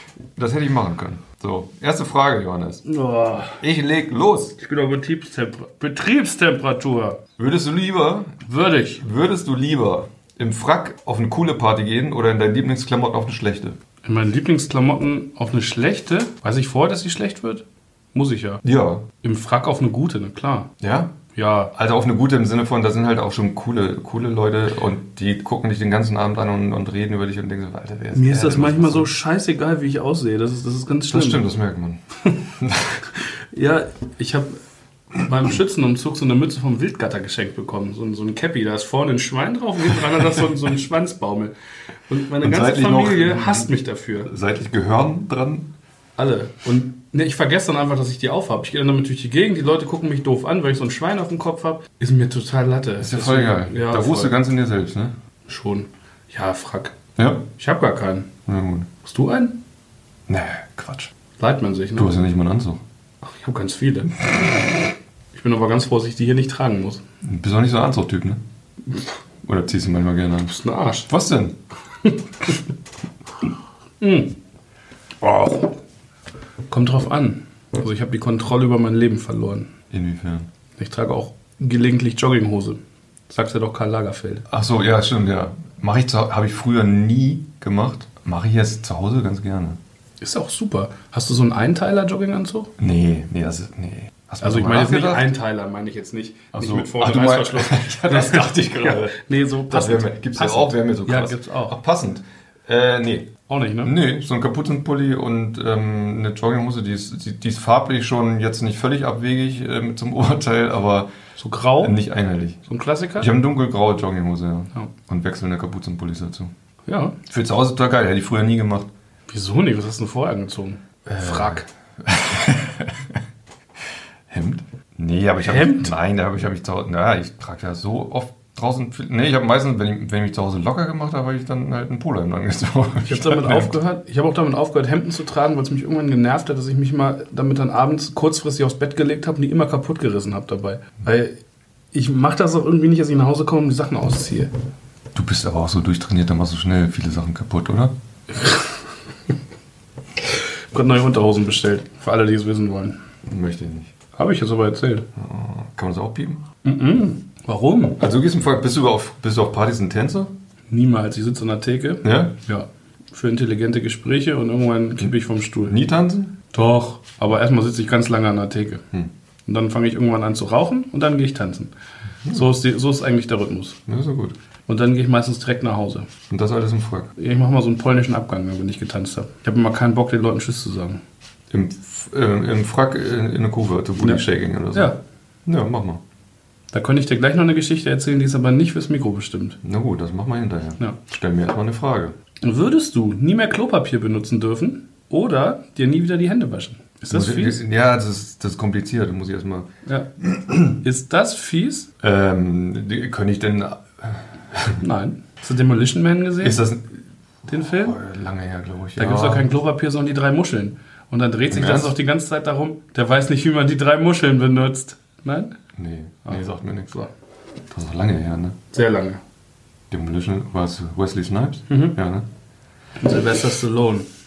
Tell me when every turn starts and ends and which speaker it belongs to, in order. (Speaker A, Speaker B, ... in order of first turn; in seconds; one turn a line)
Speaker A: 0.3-2.8
Speaker B: 2.8-3.6
Speaker A: 3.6-4.5
Speaker B: 4.6-7.2
Speaker A: 7.4-8.4
Speaker B: 8.4-9.0
Speaker A: 8.9-13.8
Speaker B: 14.0-18.6
Speaker A: 18.6-19.1
Speaker B: 19.2-20.7
Speaker A: 20.8-21.1
Speaker B: 21.3-21.7
Speaker A: 21.7-29.1
Speaker B: 28.1-31.4
Speaker A: 31.1-33.1
Speaker B: 33.5-34.6
Speaker B: 35.2-41.5
Speaker B: 42.1-44.3
Speaker A: 42.4-43.7
Speaker A: 44.2-45.7
Speaker B: 46.2-54.3
Speaker A: 53.0-55.1
Speaker B: 55.5-57.0
Speaker A: 57.2-57.5
Speaker B: 57.6-58.3
Speaker A: 58.5-58.9
Speaker B: 59.0-59.6
Speaker A: 60.3-61.1
Speaker B: 61.4-62.1
Speaker A: 62.0-62.8
Speaker B: 63.2-64.2
Speaker B: 65.3-67.0
Speaker A: 67.2-68.4
Speaker A: 69.4-70.5
Speaker B: 70.5-71.1
Speaker A: 71.1-71.6
Speaker B: 74.0-74.3
Speaker B: 75.2-75.7
Speaker B: 76.7-79.7
Speaker A: 79.9-80.5
Speaker B: 80.8-84.5
Speaker A: 84.5-89.8
Speaker B: 90.2-92.7
Speaker A: 92.8-95.3
Speaker B: 94.4-101.8
Speaker A: 96.5-111.1
Speaker B: 103.5-103.9
Speaker B: 111.4-112.0
Speaker A: 111.8-112.6
Speaker B: 112.7-113.3
Speaker A: 113.2-116.5
Speaker B: 116.8-117.2
Speaker A: 117.3-118.9
Speaker B: 119.3-121.7
Speaker A: 121.0-123.2
Speaker A: 124.3-133.8
Speaker B: 125.4-125.9
Speaker B: 133.0-141.4
Speaker B: 141.9-144.5
Speaker A: 145.1-147.9
Speaker B: 150.3-153.0
Speaker A: 153.2-153.9
Speaker B: 154.1-155.1
Speaker A: 155.2-156.4
Speaker B: 156.6-158.0
Speaker A: 158.0-160.3
Speaker B: 160.7-165.8
Speaker A: 162.0-162.3
Speaker A: 165.7-166.3
Speaker B: 166.5-168.8
Speaker B: 169.4-171.7
Speaker B: 172.3-173.8
Speaker A: 173.9-174.3
Speaker B: 174.7-176.1
Speaker A: 176.3-177.1
Speaker B: 177.2-181.0
Speaker A: 181.5-184.9
Speaker B: 184.7-185.0
Speaker A: 185.4-186.0
Speaker B: 186.7-189.6
Speaker A: 189.6-192.2
Speaker B: 192.4-197.6
Speaker A: 197.1-199.7
Speaker A: 200.2-200.8
Speaker B: 200.7-201.9
Speaker A: 202.0-204.8
Speaker B: 204.8-206.6
Speaker A: 206.4-207.0
Speaker B: 207.5-208.0
Speaker A: 207.6-209.5
Speaker B: 209.0-215.6
Speaker A: 211.5-211.9
Speaker A: 215.7-216.9
Speaker B: 216.2-217.1
Speaker A: 217.7-218.6
Speaker B: 218.7-219.2
Speaker A: 219.9-222.3
Speaker B: 221.7-222.0
Speaker B: 223.0-224.1